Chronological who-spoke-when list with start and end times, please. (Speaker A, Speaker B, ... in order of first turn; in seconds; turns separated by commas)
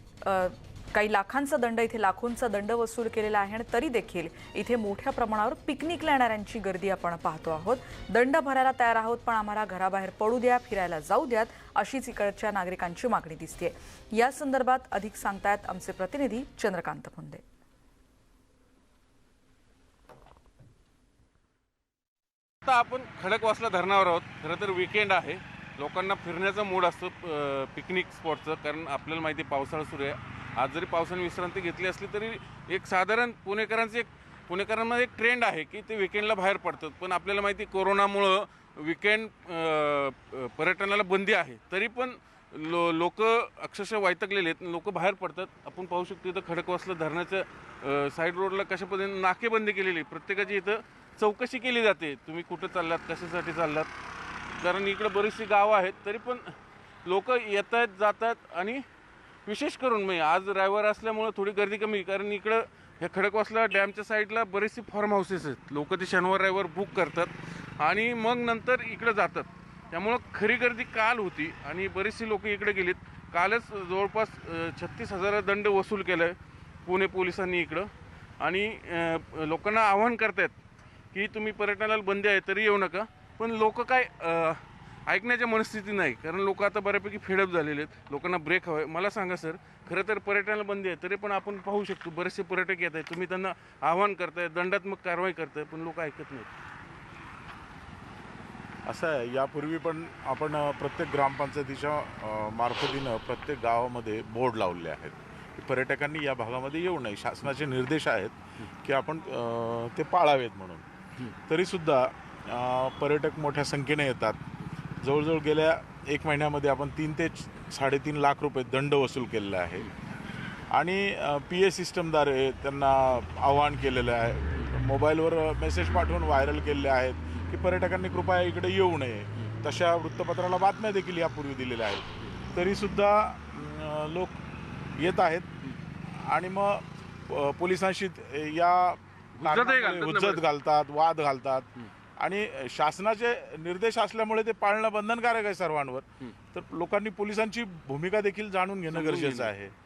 Speaker A: 0.2-17.4, Speaker B: 22.6-53.9, Speaker B: 54.6-56.5, Speaker B: 57.0-58.8, Speaker B: 59.5-76.3, Speaker B: 76.9-80.5, Speaker B: 81.1-96.5, Speaker C: 98.9-110.8, Speaker C: 111.5-114.4, Speaker C: 115.0-119.9, Speaker C: 120.7-134.4, Speaker C: 135.0-135.5, Speaker C: 136.1-141.7, Speaker B: 139.4-140.4, Speaker C: 142.2-149.7, Speaker B: 148.9-149.5